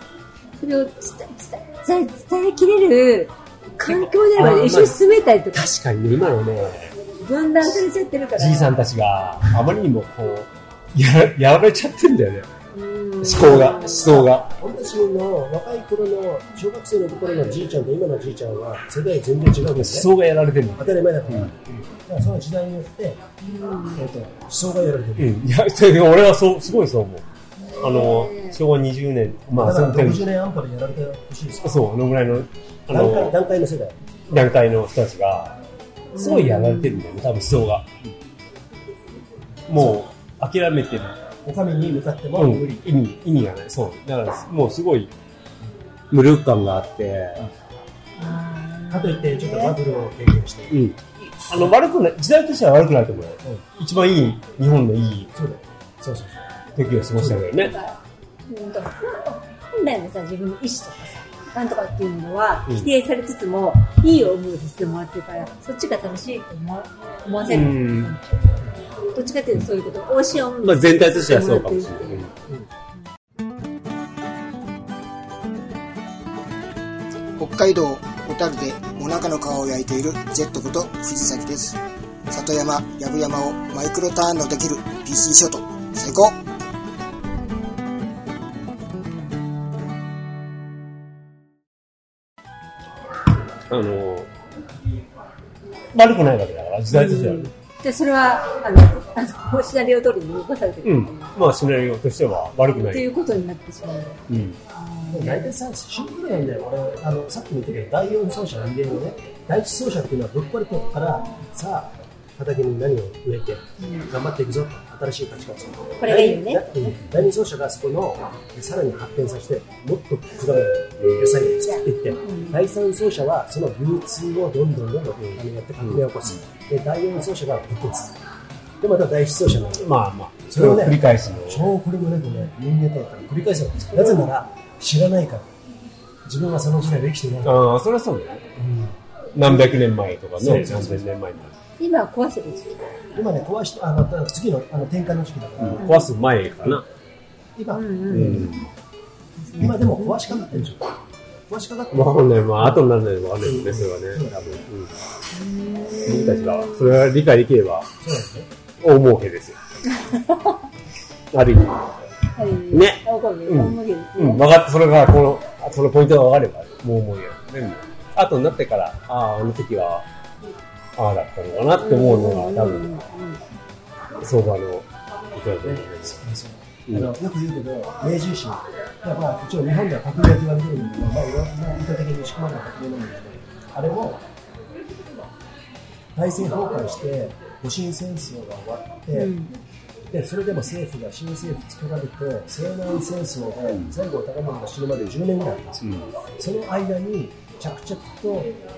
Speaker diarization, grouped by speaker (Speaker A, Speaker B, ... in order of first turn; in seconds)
Speaker A: 0.6-5.7, 7.2-8.8, 12.7-14.1, 23.4-24.1, 27.6-28.6, 36.1-37.0, 48.2-49.8, 57.6-68.3, 69.1-72.3, 96.9-101.3, 102.7-105.5, 113.8-114.1, 116.0-117.0, 122.2-122.6, 133.9-134.2, 141.8-142.9, 145.8-146.1, 147.7-148.4, 149.4-150.4, 155.3-156.9, 159.9-160.6, 162.4-164.4, 171.8-173.4, 189.1-189.5
Speaker B: 3.9-5.0, 5.5-7.0, 8.4-12.5, 13.2-14.5, 19.6-21.6, 25.2-27.2, 27.8-30.2, 31.6-33.4, 34.3-35.6, 36.1-38.0, 39.7-41.2, 42.4-45.1, 46.1-47.5, 50.7-55.3, 56.8-57.8, 67.5-68.1, 70.6-72.3, 93.7-94.3, 95.9-97.5, 100.8-103.1, 104.3-104.6, 121.0-121.5, 125.2-126.0, 129.8-131.7, 137.4-138.4, 139.3-141.5, 145.6-146.8, 148.1-148.7, 151.9-154.9, 156.0-157.9, 158.8-159.6, 161.3-161.9, 162.7-170.1, 170.9-172.9, 174.2-176.2, 195.8-196.1
Speaker C: 13.9-20.1, 20.8-23.2, 23.9-25.4, 29.6-31.7, 32.9-34.0, 41.4-42.8, 48.9-50.8, 55.3-56.5, 57.1-57.5, 105.1-128.2, 128.8-129.9, 130.5-135.5, 136.2-137.5, 138.6-138.9, 140.4-141.0, 143.1-145.8, 147.6-148.5, 149.6-150.9, 151.5-152.8, 153.4-154.3, 158.0-158.5, 175.6-184.2, 186.1-189.3, 190.0-195.8, 196.4-198.6
Speaker D: 77.4-86.4